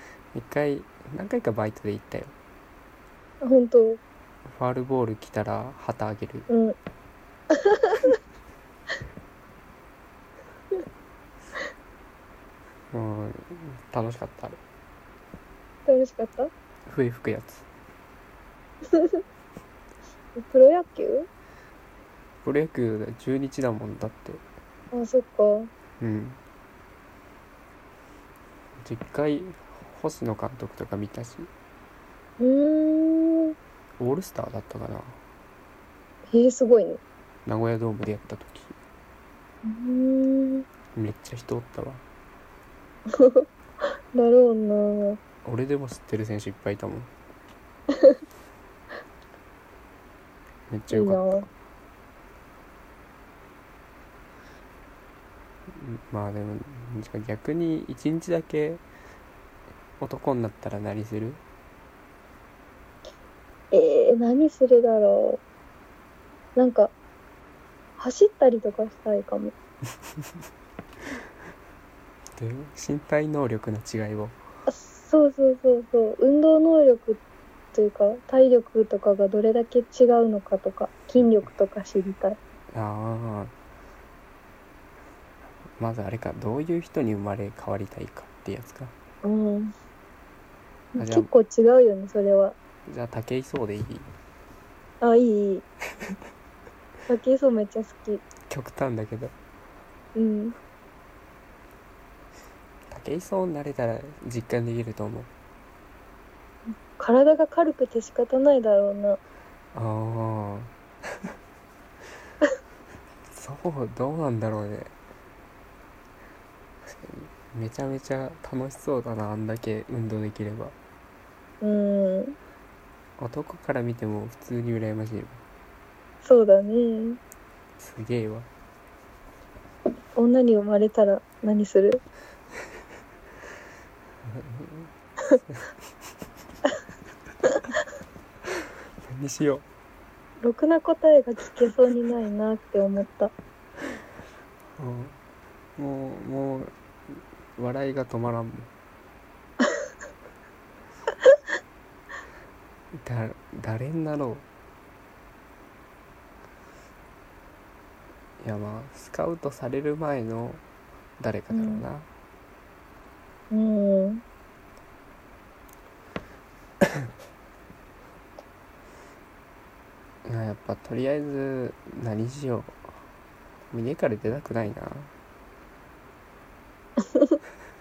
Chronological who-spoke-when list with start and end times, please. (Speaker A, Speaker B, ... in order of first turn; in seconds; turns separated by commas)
Speaker A: 0.3-2.3, Speaker B: 3.4-4.0, Speaker A: 4.6-6.5, Speaker B: 6.5-6.8, Speaker B: 7.5-8.1, Speaker A: 12.9-14.6, Speaker B: 15.8-16.5, Speaker A: 16.9-17.6, Speaker B: 18.9-19.2, Speaker B: 20.4-21.3, Speaker A: 22.4-24.4, Speaker B: 24.9-25.7, Speaker A: 26.0-26.4, Speaker A: 28.8-31.5, Speaker B: 32.4-33.5, Speaker A: 34.0-35.2, Speaker B: 36.3-37.0, Speaker A: 37.5-38.8, Speaker B: 39.6-40.6, Speaker A: 40.9-42.0, Speaker B: 43.2-43.5, Speaker B: 44.1-45.2, Speaker A: 45.4-47.1, Speaker B: 47.9-48.2, Speaker A: 50.7-51.5, Speaker B: 50.9-51.5, Speaker A: 55.7-58.8, Speaker A: 60.0-61.4, Speaker B: 63.7-65.4, Speaker B: 66.5-66.9, Speaker B: 68.0-69.5, Speaker A: 72.4-74.3, Speaker B: 74.7-77.2, Speaker B: 77.7-82.4, Speaker A: 82.7-83.5, Speaker A: 85.8-88.9, Speaker B: 89.2-89.7, Speaker B: 90.9-92.5, Speaker A: 91.0-91.3, Speaker A: 92.9-94.1, Speaker B: 95.0-95.6, Speaker B: 97.1-98.2, Speaker A: 98.5-99.3, Speaker B: 100.1-100.5, Speaker A: 102.9-105.3, Speaker B: 106.8-109.2, Speaker A: 109.7-110.7, Speaker A: 113.3-114.9, Speaker A: 116.8-120.7, Speaker B: 121.6-122.3, Speaker A: 123.2-125.4, Speaker B: 126.2-127.2, Speaker A: 127.8-128.5, Speaker B: 130.2-132.0, Speaker A: 134.3-134.9, Speaker A: 139.1-139.6, Speaker B: 140.4-143.3, Speaker A: 144.8-145.2, Speaker A: 145.8-148.7, Speaker A: 152.9-154.4, Speaker A: 158.4-160.6, Speaker A: 161.2-162.1, Speaker B: 161.5-161.8, Speaker B: 163.5-164.2, Speaker A: 170.2-172.8, Speaker A: 173.7-175.1, Speaker B: 177.0-177.4